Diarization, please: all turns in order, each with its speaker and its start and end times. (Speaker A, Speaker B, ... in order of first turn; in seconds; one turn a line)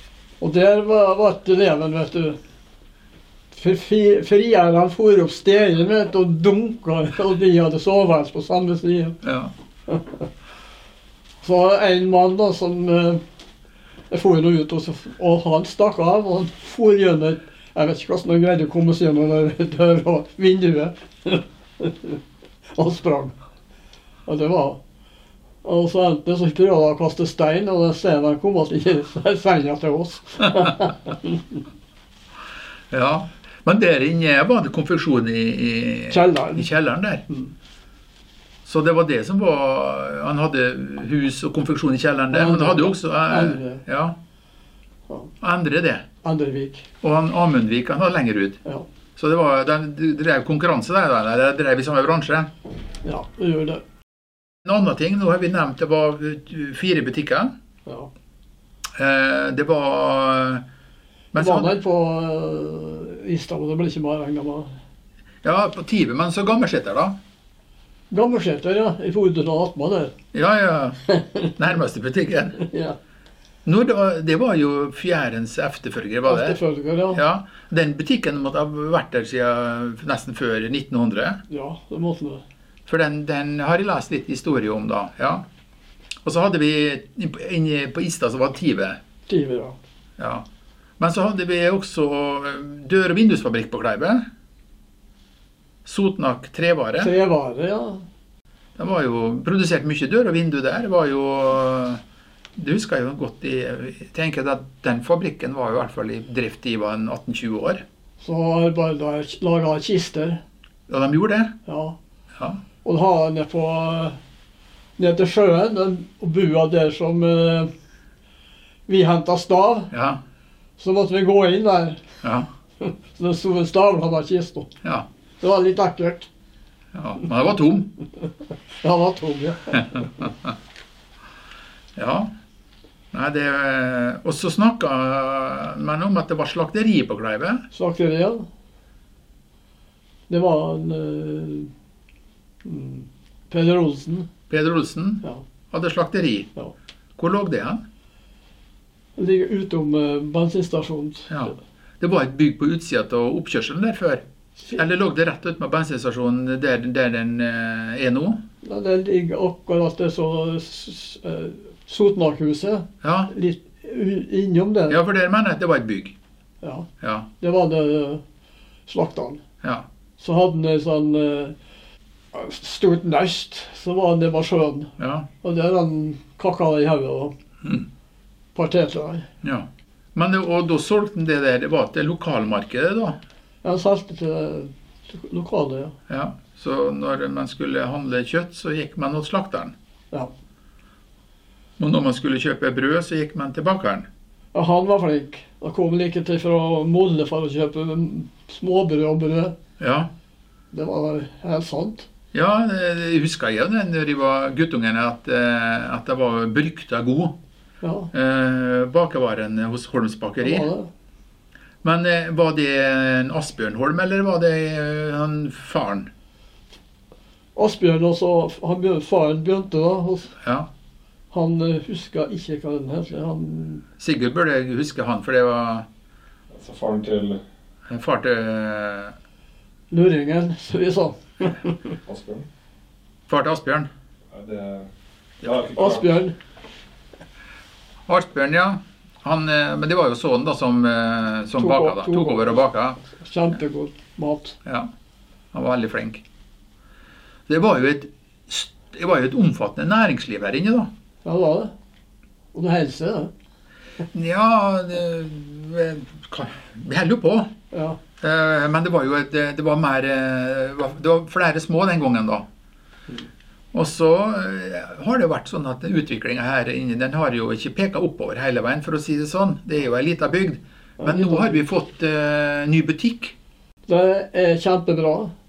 Speaker A: 0.4-2.4
Speaker A: 3.5-9.2
Speaker B: 9.2-9.5
Speaker A: 9.9-10.3
Speaker A: 11.4-13.2
Speaker A: 14.1-22.2
Speaker A: 22.8-23.4
Speaker A: 24.3-24.8
Speaker A: 25.6-31.6
Speaker B: 32.9-37.2
Speaker A: 36.1-36.7
Speaker B: 38.7-44.2
Speaker A: 42.3-43.9
Speaker B: 45.4-46.0
Speaker A: 46.2-46.9
Speaker B: 47.0-48.6
Speaker B: 49.2-52.5
Speaker A: 53.0-53.8
Speaker B: 54.6-57.5
Speaker B: 59.0-60.6
Speaker B: 61.3-61.8
Speaker A: 61.4-64.8
Speaker B: 65.4-67.2
Speaker A: 68.1-70.1
Speaker B: 70.3-71.0
Speaker A: 71.1-71.6
Speaker B: 71.5-72.6
Speaker A: 72.6-73.0
Speaker B: 73.7-76.6
Speaker A: 76.3-77.2
Speaker B: 77.1-81.4
Speaker A: 81.5-82.4
Speaker B: 82.9-85.5
Speaker B: 86.2-89.0
Speaker A: 89.3-89.8
Speaker B: 90.2-90.5
Speaker B: 91.0-94.2
Speaker B: 95.8-97.1
Speaker A: 97.0-98.0
Speaker B: 98.8-102.0
Speaker B: 102.6-107.8
Speaker A: 108.2-110.4
Speaker B: 110.9-111.5
Speaker A: 111.7-112.0
Speaker B: 112.4-112.6
Speaker A: 112.8-114.2
Speaker A: 115.0-117.7
Speaker A: 118.9-119.9
Speaker B: 119.9-120.2
Speaker A: 120.8-122.0
Speaker B: 122.2-122.5
Speaker A: 122.8-124.7
Speaker A: 125.4-126.3
Speaker B: 126.9-127.9
Speaker A: 128.8-130.3
Speaker B: 129.7-130.5
Speaker B: 132.0-132.3
Speaker B: 133.1-137.7
Speaker A: 137.7-138.5
Speaker A: 140.3-141.7
Speaker A: 142.7-144.3
Speaker B: 144.5-146.5
Speaker B: 147.2-147.8
Speaker A: 149.2-151.6
Speaker B: 151.3-154.2
Speaker B: 154.8-158.4
Speaker A: 158.6-165.0
Speaker B: 163.0-163.3
Speaker B: 164.9-166.2
Speaker A: 166.6-166.9
Speaker B: 167.0-167.3
Speaker A: 167.4-168.2
Speaker A: 168.9-169.4
Speaker A: 170.2-171.6
Speaker A: 172.3-177.3
Speaker B: 175.0-175.3
Speaker A: 178.6-179.3
Speaker B: 179.4-183.2
Speaker A: 183.6-185.9
Speaker B: 186.1-189.7
Speaker B: 191.8-194.1
Speaker A: 194.5-199.6
Speaker B: 199.8-200.1
Speaker A: 200.7-202.1
Speaker B: 202.3-207.4
Speaker A: 207.8-208.1
Speaker B: 208.1-210.7
Speaker A: 210.4-210.9
Speaker B: 211.8-216.1
Speaker A: 217.6-220.3
Speaker B: 220.4-220.7
Speaker A: 221.3-223.8
Speaker B: 224.0-225.9
Speaker C: 226.5-227.4
Speaker B: 227.9-229.2
Speaker A: 229.9-231.9
Speaker C: 232.1-232.5
Speaker B: 233.3-233.9
Speaker C: 234.3-234.9
Speaker C: 235.4-236.2
Speaker A: 235.8-236.3
Speaker B: 238.1-243.0
Speaker A: 241.6-244.6
Speaker B: 244.7-244.9
Speaker B: 245.5-246.2
Speaker B: 247.5-250.9
Speaker A: 251.2-251.7
Speaker A: 252.5-253.3
Speaker B: 254.1-257.5
Speaker A: 257.7-258.0
Speaker B: 258.2-262.5
Speaker B: 263.7-273.4
Speaker A: 271.0-271.6
Speaker A: 273.9-275.3